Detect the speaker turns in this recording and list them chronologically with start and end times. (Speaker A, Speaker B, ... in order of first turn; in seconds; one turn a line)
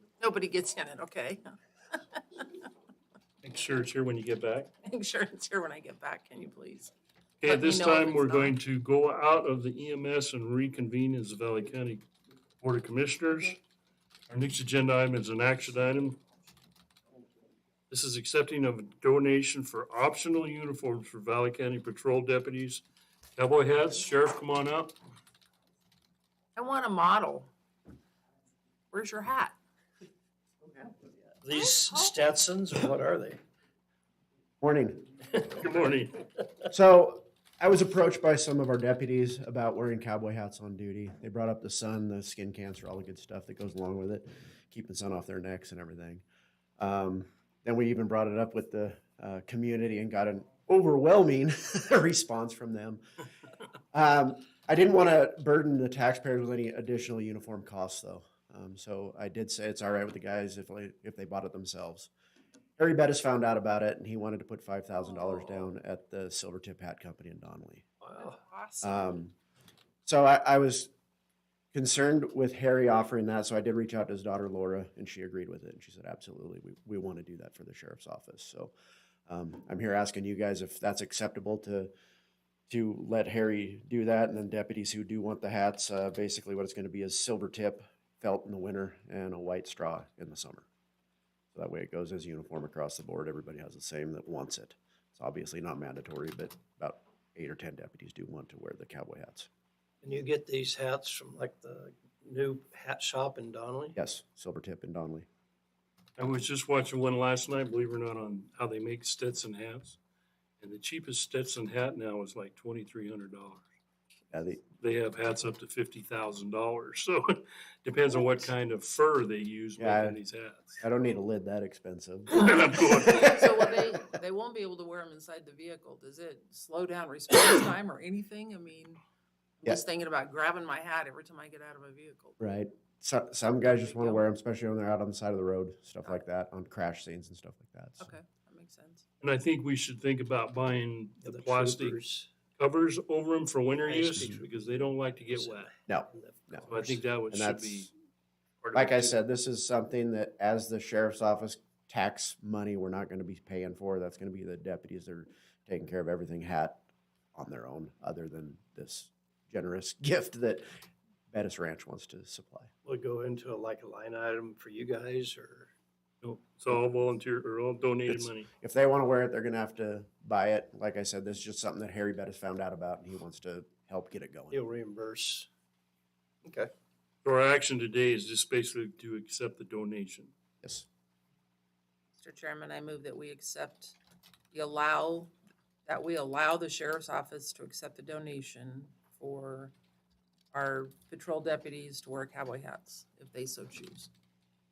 Speaker A: 0.2-1.5
Speaker B: 3.4-4.7
Speaker A: 4.8-6.9
Speaker B: 7.4-12.0
Speaker A: 7.4-8.6
Speaker B: 12.6-13.6
Speaker B: 14.3-16.2
Speaker B: 17.9-22.8
Speaker B: 23.4-24.9
Speaker A: 26.6-27.5
Speaker A: 28.9-29.6
Speaker C: 30.6-31.3
Speaker D: 31.4-33.4
Speaker A: 31.6-32.0
Speaker C: 34.6-35.0
Speaker B: 35.5-36.2
Speaker C: 36.7-46.2
Speaker C: 46.8-53.0
Speaker C: 53.9-62.1
Speaker C: 62.8-67.8
Speaker A: 65.0-65.7
Speaker D: 68.0-68.4
Speaker A: 68.2-69.2
Speaker C: 68.8-69.3
Speaker C: 70.0-70.9
Speaker C: 71.7-78.7
Speaker C: 79.3-81.9
Speaker C: 82.7-90.7
Speaker C: 91.5-99.5
Speaker D: 100.0-104.0
Speaker C: 103.9-105.3
Speaker B: 106.2-110.0
Speaker B: 110.6-113.7
Speaker C: 114.3-114.6
Speaker B: 114.8-120.8
Speaker C: 119.8-120.2
Speaker C: 120.8-124.0
Speaker B: 122.3-123.5
Speaker A: 122.7-129.0
Speaker A: 129.6-132.4
Speaker C: 132.4-138.1
Speaker A: 133.6-134.2
Speaker A: 138.0-139.0
Speaker B: 139.2-142.0
Speaker D: 141.2-142.3
Speaker B: 142.5-145.7
Speaker D: 143.8-147.1
Speaker C: 145.9-146.7
Speaker B: 146.7-147.9
Speaker C: 147.3-147.9
Speaker B: 148.6-149.2
Speaker C: 148.7-156.8
Speaker C: 157.3-160.6
Speaker C: 161.3-162.7
Speaker D: 162.8-165.7
Speaker B: 166.2-168.5
Speaker C: 168.1-174.6
Speaker D: 174.5-175.5
Speaker D: 176.4-176.7
Speaker B: 177.2-180.3
Speaker C: 180.6-180.9
Speaker A: 182.2-184.0
Speaker A: 184.5-185.3
Speaker A: 185.8-189.7
Speaker A: 190.5-194.1